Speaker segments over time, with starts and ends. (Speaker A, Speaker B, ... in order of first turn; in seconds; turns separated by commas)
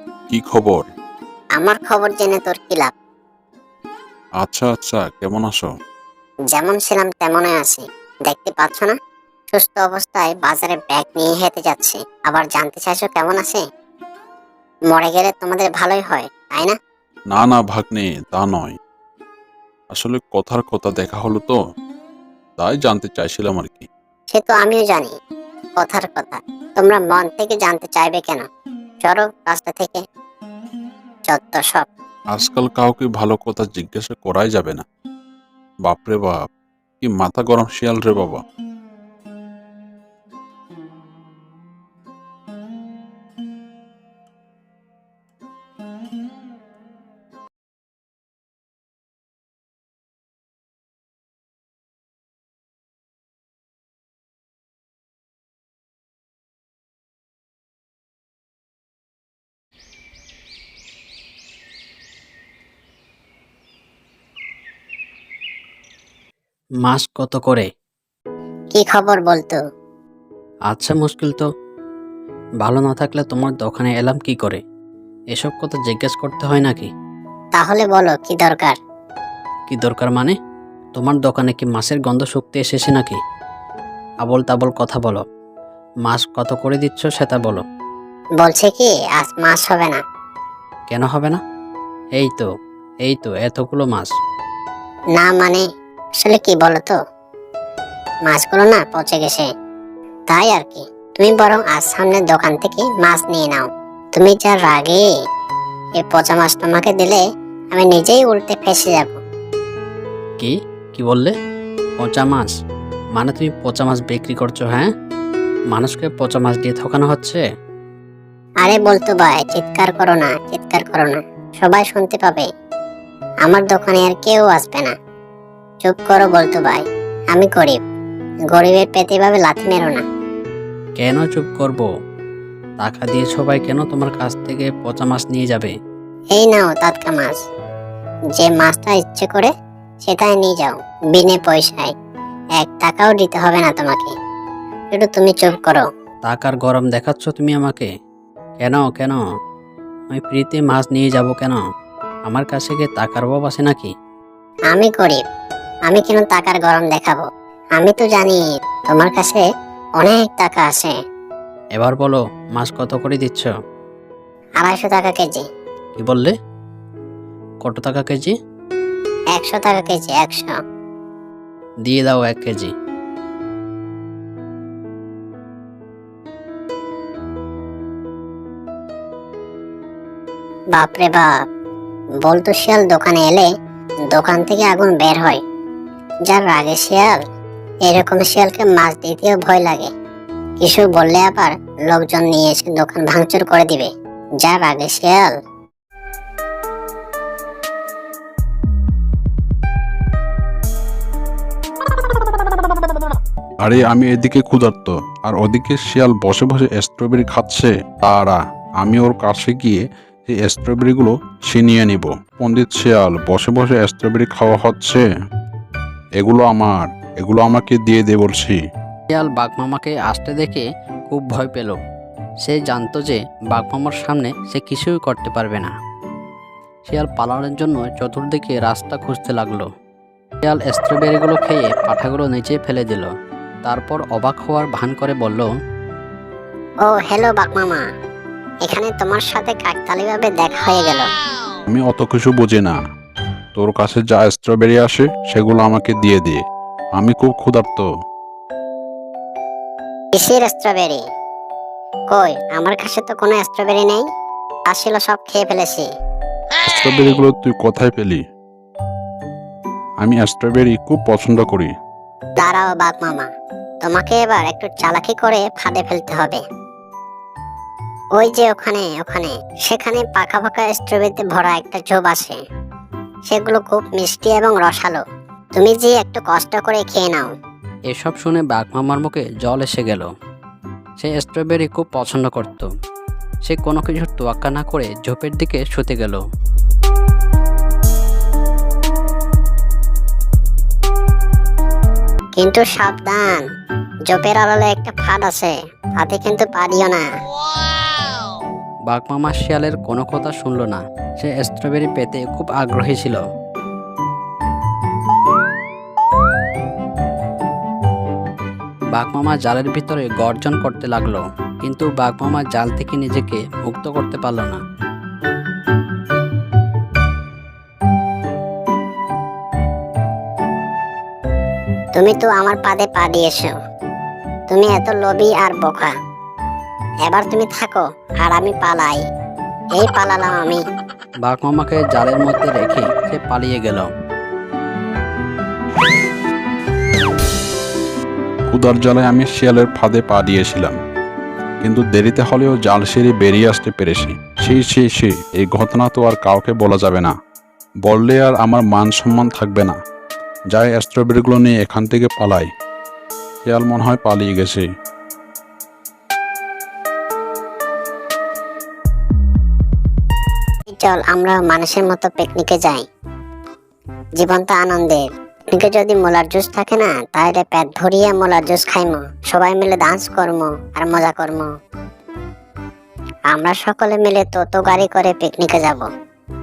Speaker A: 0.3-0.8, Speaker B: 1.6-2.9, Speaker A: 4.4-5.7, Speaker B: 6.5-8.9, Speaker B: 9.5-13.6, Speaker B: 14.9-16.8, Speaker A: 17.3-18.8, Speaker A: 19.9-21.6, Speaker A: 22.6-23.9, Speaker B: 24.3-25.1, Speaker B: 25.8-28.4, Speaker B: 29.0-30.0, Speaker B: 31.3-31.9, Speaker A: 32.3-34.8, Speaker A: 35.8-36.4, Speaker A: 37.0-38.4, Speaker C: 66.8-67.7, Speaker B: 68.7-69.6, Speaker C: 70.7-71.5, Speaker C: 72.6-74.6, Speaker C: 75.3-76.9, Speaker B: 77.5-78.8, Speaker C: 79.7-80.3, Speaker C: 81.0-83.2, Speaker C: 84.2-85.2, Speaker C: 86.0-87.6, Speaker B: 88.4-90.0, Speaker C: 90.9-91.4, Speaker C: 92.1-92.5, Speaker C: 93.0-94.1, Speaker B: 95.2-95.6, Speaker B: 96.2-97.0, Speaker B: 98.3-99.5, Speaker B: 100.3-105.0, Speaker B: 106.0-109.2, Speaker C: 110.4-111.3, Speaker C: 112.0-112.5, Speaker C: 113.2-114.9, Speaker C: 115.7-117.4, Speaker B: 118.6-122.5, Speaker B: 123.4-124.9, Speaker B: 125.8-127.8, Speaker B: 128.5-130.0, Speaker C: 131.0-131.9, Speaker C: 132.8-135.7, Speaker B: 136.3-137.4, Speaker B: 138.3-139.5, Speaker B: 140.0-141.9, Speaker B: 142.6-144.1, Speaker B: 144.9-145.9, Speaker C: 146.3-147.9, Speaker C: 148.6-149.2, Speaker C: 150.1-151.6, Speaker C: 152.3-153.9, Speaker B: 154.7-155.2, Speaker B: 155.9-159.4, Speaker B: 160.0-160.9, Speaker C: 161.8-163.5, Speaker B: 164.6-165.4, Speaker C: 166.0-166.3, Speaker C: 167.6-168.3, Speaker B: 169.3-170.5, Speaker C: 171.8-172.7, Speaker B: 180.7-181.3, Speaker B: 182.2-183.5, Speaker B: 184.1-185.4, Speaker B: 186.3-187.2, Speaker B: 187.8-189.9, Speaker B: 190.6-193.9, Speaker B: 194.4-195.3, Speaker A: 202.2-202.8, Speaker A: 203.6-215.0, Speaker A: 216.2-218.6, Speaker C: 219.1-221.8, Speaker C: 222.4-225.7, Speaker C: 226.9-229.7, Speaker C: 230.4-233.1, Speaker C: 233.7-235.5, Speaker B: 236.8-237.8, Speaker B: 238.6-241.1, Speaker A: 241.7-242.8, Speaker A: 243.6-246.4, Speaker A: 247.0-247.9, Speaker B: 250.1-251.0, Speaker B: 252.1-254.0, Speaker B: 254.7-255.9, Speaker A: 256.6-258.2, Speaker A: 260.0-261.7, Speaker B: 262.4-263.3, Speaker B: 263.8-266.4, Speaker B: 268.1-272.4, Speaker B: 273.3-275.0, Speaker B: 275.6-277.3, Speaker C: 277.9-280.1, Speaker C: 281.0-282.7, Speaker C: 283.4-286.2, Speaker B: 292.4-293.4, Speaker B: 294.1-297.1, Speaker C: 298.9-303.2, Speaker C: 308.9-314.6, Speaker B: 321.9-323.5, Speaker B: 324.5-325.9, Speaker B: 327.0-329.0, Speaker B: 329.7-330.6, Speaker C: 331.2-333.9, Speaker A: 338.5-340.8, Speaker A: 341.6-347.1, Speaker A: 347.8-349.7, Speaker A: 350.5-352.5, Speaker A: 353.4-354.6, Speaker B: 360.7-362.8, Speaker B: 364.2-371.5, Speaker B: 373.3-375.9